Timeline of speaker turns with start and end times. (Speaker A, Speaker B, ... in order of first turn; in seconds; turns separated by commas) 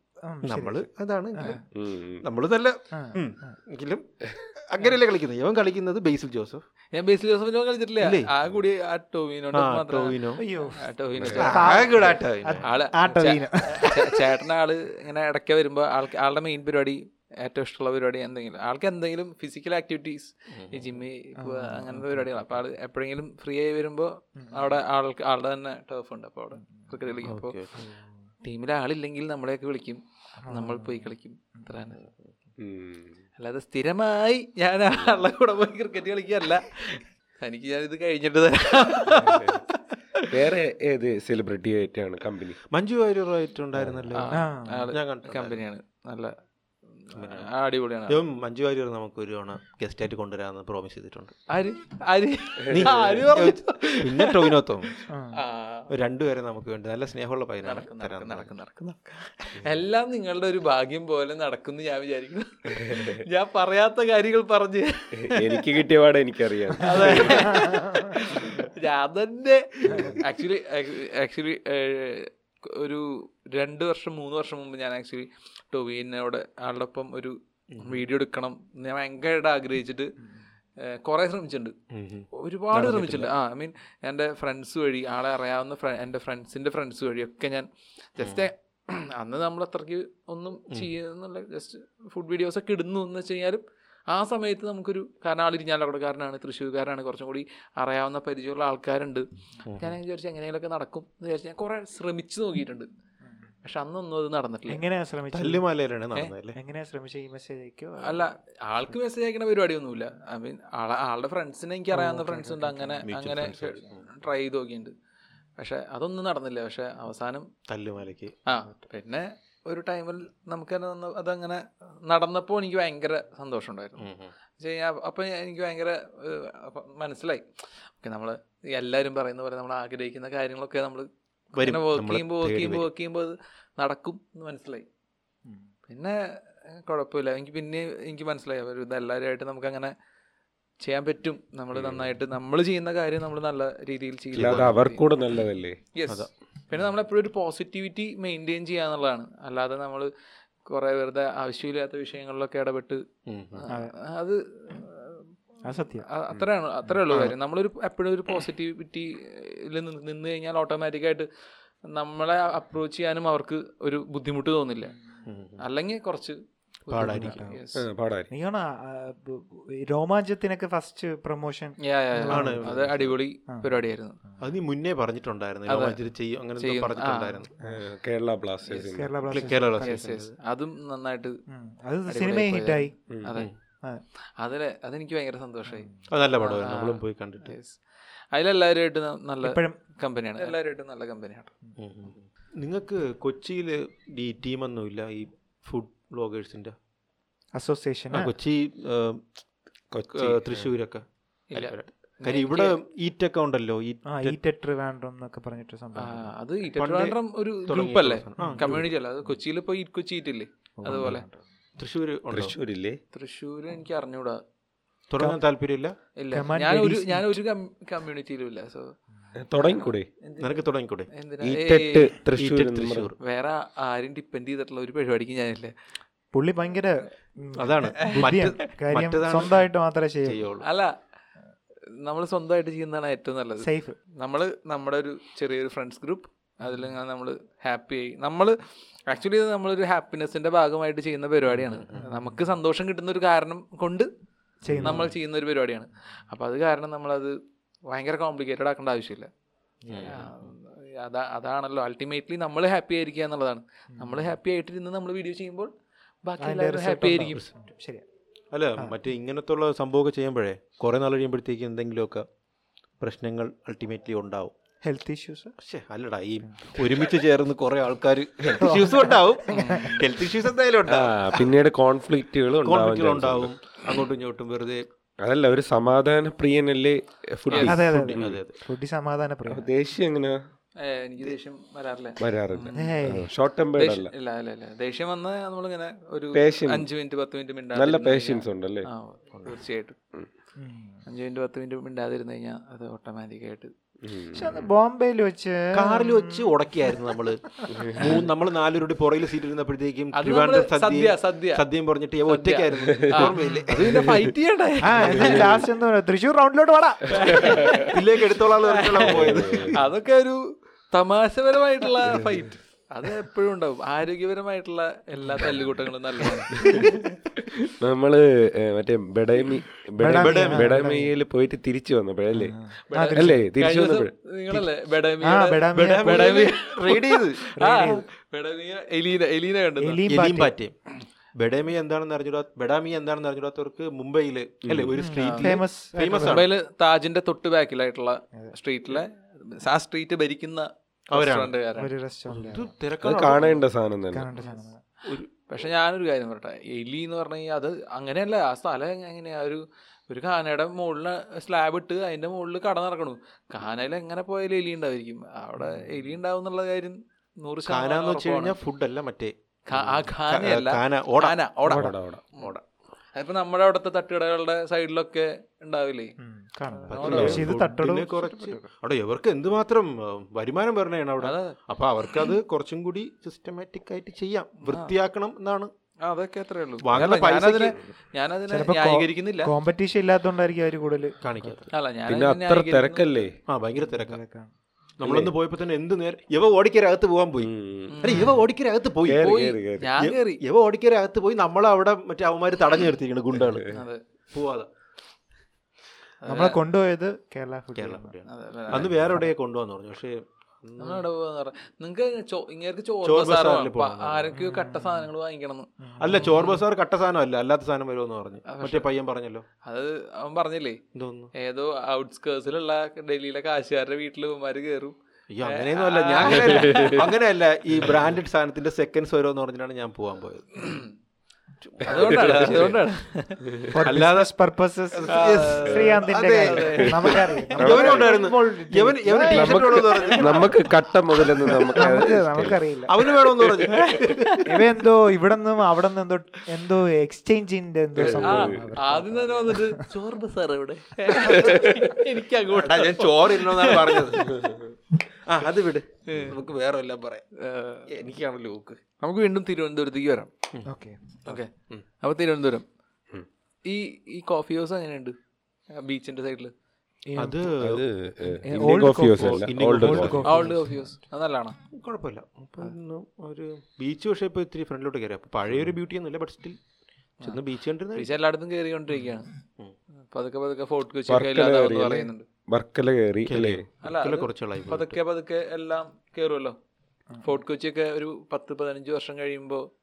Speaker A: 0.2-1.6, Speaker B: 0.4-1.6, Speaker C: 1.7-2.2, Speaker B: 2.2-6.6, Speaker A: 2.9-3.5, Speaker D: 6.9-12.1, Speaker B: 8.0-8.3, Speaker B: 9.5-10.4, Speaker A: 10.4-10.8, Speaker C: 11.2-11.5, Speaker B: 11.3-12.7, Speaker A: 11.4-14.2, Speaker D: 12.6-27.5, Speaker B: 20.5-20.9, Speaker A: 21.4-22.4, Speaker A: 24.4-24.7, Speaker B: 27.2-27.9, Speaker A: 27.8-28.2, Speaker D: 28.4-32.0, Speaker A: 30.4-31.8, Speaker C: 32.6-33.1, Speaker D: 33.4-40.3, Speaker C: 39.2-39.6, Speaker C: 40.3-42.6, Speaker B: 42.7-44.3, Speaker C: 43.7-44.1, Speaker D: 44.1-46.3, Speaker A: 44.3-44.9, Speaker B: 44.9-45.6, Speaker D: 47.0-48.2, Speaker B: 47.1-47.5, Speaker B: 48.1-51.3, Speaker D: 51.5-54.6, Speaker B: 52.7-55.0, Speaker A: 55.1-55.4, Speaker D: 55.3-55.9, Speaker B: 55.9-58.5, Speaker D: 57.6-65.7, Speaker C: 62.9-63.2, Speaker C: 65.2-67.6, Speaker D: 66.8-80.1, Speaker A: 67.1-68.2, Speaker C: 69.9-70.2, Speaker B: 77.7-78.0, Speaker D: 80.8-81.7, Speaker B: 81.9-83.3, Speaker D: 82.3-102.9, Speaker B: 88.2-88.5, Speaker B: 99.7-99.9, Speaker D: 103.6-104.8, Speaker A: 104.7-105.6, Speaker B: 105.3-106.6, Speaker A: 106.5-108.3, Speaker D: 108.0-114.9, Speaker A: 111.9-113.0, Speaker B: 113.0-114.0, Speaker D: 115.6-117.5, Speaker B: 117.7-118.3, Speaker D: 118.5-124.1, Speaker B: 124.0-124.3, Speaker D: 124.6-127.4, Speaker D: 128.0-134.9, Speaker B: 131.6-132.8, Speaker D: 135.9-136.2, Speaker D: 136.7-139.9, Speaker D: 140.8-145.0, Speaker C: 141.8-142.0, Speaker B: 144.3-144.7, Speaker C: 144.3-145.8, Speaker D: 145.9-150.1, Speaker D: 150.7-153.0, Speaker B: 153.3-153.7, Speaker D: 153.5-161.3, Speaker A: 155.6-156.1, Speaker D: 161.9-164.9, Speaker A: 164.9-165.2, Speaker B: 165.2-165.6, Speaker D: 165.6-167.8, Speaker B: 166.9-167.4, Speaker A: 167.0-167.6, Speaker C: 167.7-168.3, Speaker A: 168.3-172.8, Speaker D: 171.8-174.2, Speaker B: 172.3-173.1, Speaker B: 174.4-177.5, Speaker D: 175.7-176.0, Speaker D: 176.6-177.4, Speaker C: 177.6-179.1, Speaker A: 178.9-180.0, Speaker B: 179.3-180.3, Speaker D: 179.8-181.4, Speaker A: 181.5-182.9, Speaker D: 182.1-183.5, Speaker C: 183.1-183.3, Speaker D: 184.4-187.8, Speaker A: 185.7-186.1, Speaker B: 186.1-187.5, Speaker D: 188.3-191.5, Speaker A: 189.4-189.8, Speaker B: 191.8-196.7, Speaker A: 197.5-198.3, Speaker B: 198.1-199.2, Speaker C: 199.9-200.7, Speaker B: 200.1-204.4, Speaker D: 201.5-202.8, Speaker A: 204.1-206.3, Speaker D: 205.9-211.2, Speaker B: 206.8-208.8, Speaker A: 208.4-208.8, Speaker A: 210.8-211.4, Speaker B: 211.8-212.5, Speaker C: 212.3-213.0, Speaker D: 213.1-214.4, Speaker B: 215.1-215.9, Speaker D: 216.2-218.9, Speaker A: 216.3-217.3, Speaker C: 219.3-220.1, Speaker D: 219.6-222.1, Speaker B: 220.4-221.1, Speaker C: 221.4-223.1, Speaker B: 222.3-223.2, Speaker D: 223.2-225.7, Speaker A: 226.3-230.5, Speaker B: 227.6-229.6, Speaker D: 228.0-228.4, Speaker B: 230.2-230.6, Speaker D: 230.6-230.9, Speaker D: 232.0-238.6, Speaker A: 233.6-234.0, Speaker D: 239.1-244.1, Speaker A: 241.9-242.4, Speaker A: 244.6-245.1, Speaker B: 244.7-245.1, Speaker D: 244.8-247.4, Speaker D: 247.9-249.3, Speaker A: 249.8-250.5, Speaker B: 249.9-250.2, Speaker D: 250.0-255.7, Speaker A: 253.9-254.3, Speaker D: 256.2-257.4, Speaker A: 256.4-258.0, Speaker B: 258.5-262.2, Speaker B: 263.0-264.5, Speaker A: 264.8-265.5, Speaker B: 265.6-271.5, Speaker A: 266.4-266.8, Speaker A: 268.6-270.0, Speaker D: 269.5-270.1, Speaker C: 270.9-273.5, Speaker B: 272.6-274.8, Speaker C: 275.2-278.4, Speaker D: 277.5-277.8, Speaker B: 277.5-278.6, Speaker A: 277.6-279.7, Speaker C: 279.4-280.4, Speaker D: 280.8-282.9, Speaker C: 282.2-284.1, Speaker A: 282.7-283.3, Speaker D: 283.8-290.0, Speaker C: 286.3-286.9, Speaker C: 287.7-288.9, Speaker A: 290.6-291.0, Speaker D: 291.1-293.7, Speaker C: 294.0-294.7, Speaker A: 294.3-298.2, Speaker B: 295.7-304.2, Speaker C: 297.7-298.1, Speaker D: 300.1-301.6, Speaker D: 302.3-305.6, Speaker A: 303.3-303.7, Speaker A: 304.8-307.8, Speaker C: 305.2-305.6, Speaker D: 307.1-316.9, Speaker C: 307.2-307.7, Speaker B: 307.8-309.7, Speaker C: 309.1-309.7, Speaker A: 316.6-316.9, Speaker C: 317.8-322.6, Speaker A: 320.0-321.1, Speaker B: 320.1-320.8, Speaker A: 322.3-323.4, Speaker D: 322.9-330.0, Speaker C: 323.1-324.1, Speaker A: 325.2-326.4, Speaker B: 325.7-327.4, Speaker A: 327.6-328.0, Speaker A: 329.8-330.5, Speaker B: 330.1-330.7, Speaker B: 331.4-336.5, Speaker C: 334.6-334.9, Speaker A: 335.0-336.5, Speaker D: 335.1-335.6, Speaker D: 336.2-341.9, Speaker B: 341.1-341.5, Speaker A: 341.8-342.7, Speaker B: 342.3-343.6, Speaker C: 343.0-344.3, Speaker A: 344.1-344.8, Speaker D: 345.5-358.6, Speaker A: 355.6-355.9, Speaker B: 357.7-361.4, Speaker D: 359.7-362.5, Speaker A: 361.6-361.9, Speaker C: 361.6-362.2, Speaker B: 362.4-362.6, Speaker D: 363.1-366.1, Speaker A: 366.2-368.6, Speaker D: 366.9-367.5, Speaker B: 366.9-375.7, Speaker C: 367.0-367.4, Speaker D: 371.2-371.6, Speaker D: 374.6-374.9, Speaker D: 376.0-379.5, Speaker B: 376.8-377.8, Speaker A: 378.5-381.7, Speaker B: 381.2-381.7, Speaker D: 381.7-383.3, Speaker C: 382.1-383.3, Speaker B: 383.5-384.2, Speaker A: 383.8-384.5, Speaker B: 385.0-389.3, Speaker C: 385.0-385.3, Speaker C: 387.4-388.0, Speaker D: 387.9-388.3, Speaker C: 389.0-389.9, Speaker D: 389.1-390.4, Speaker B: 390.0-393.7, Speaker D: 393.7-394.0, Speaker B: 394.3-394.7, Speaker D: 396.2-396.6, Speaker A: 396.2-398.1, Speaker B: 397.8-401.0, Speaker D: 398.3-398.9, Speaker D: 400.8-406.6, Speaker B: 403.0-404.3, Speaker A: 404.3-405.1, Speaker A: 405.8-406.5, Speaker B: 406.0-409.4, Speaker D: 408.5-408.9, Speaker D: 409.6-410.8, Speaker B: 410.9-411.3, Speaker D: 411.3-417.1, Speaker B: 415.3-420.8, Speaker C: 416.4-417.0, Speaker D: 420.6-420.9, Speaker B: 421.6-422.8, Speaker D: 421.8-423.4, Speaker C: 422.0-422.6, Speaker A: 423.7-430.0, Speaker B: 423.8-424.3, Speaker B: 424.9-432.1, Speaker D: 425.1-427.2, Speaker C: 427.6-428.1, Speaker C: 429.3-432.6, Speaker A: 431.7-432.9, Speaker B: 432.9-434.6, Speaker D: 433.6-434.4, Speaker A: 434.4-439.9, Speaker C: 437.9-438.7, Speaker D: 438.1-444.4, Speaker C: 441.3-441.8, Speaker B: 442.5-444.3, Speaker B: 445.2-447.2, Speaker D: 446.1-446.4, Speaker D: 447.3-447.9, Speaker B: 447.9-448.8, Speaker D: 449.0-450.3, Speaker A: 450.6-451.2, Speaker B: 451.3-451.8, Speaker D: 452.0-452.6, Speaker D: 453.6-455.1, Speaker D: 455.7-456.5, Speaker A: 457.1-457.5, Speaker B: 457.2-457.8, Speaker C: 457.6-460.2, Speaker A: 458.4-460.9, Speaker B: 458.5-460.5, Speaker D: 460.2-461.6, Speaker B: 461.7-466.6, Speaker B: 467.2-468.1, Speaker D: 467.9-469.3, Speaker D: 470.1-472.2, Speaker C: 471.1-473.6, Speaker B: 473.3-474.9, Speaker D: 473.8-476.6, Speaker D: 477.2-479.7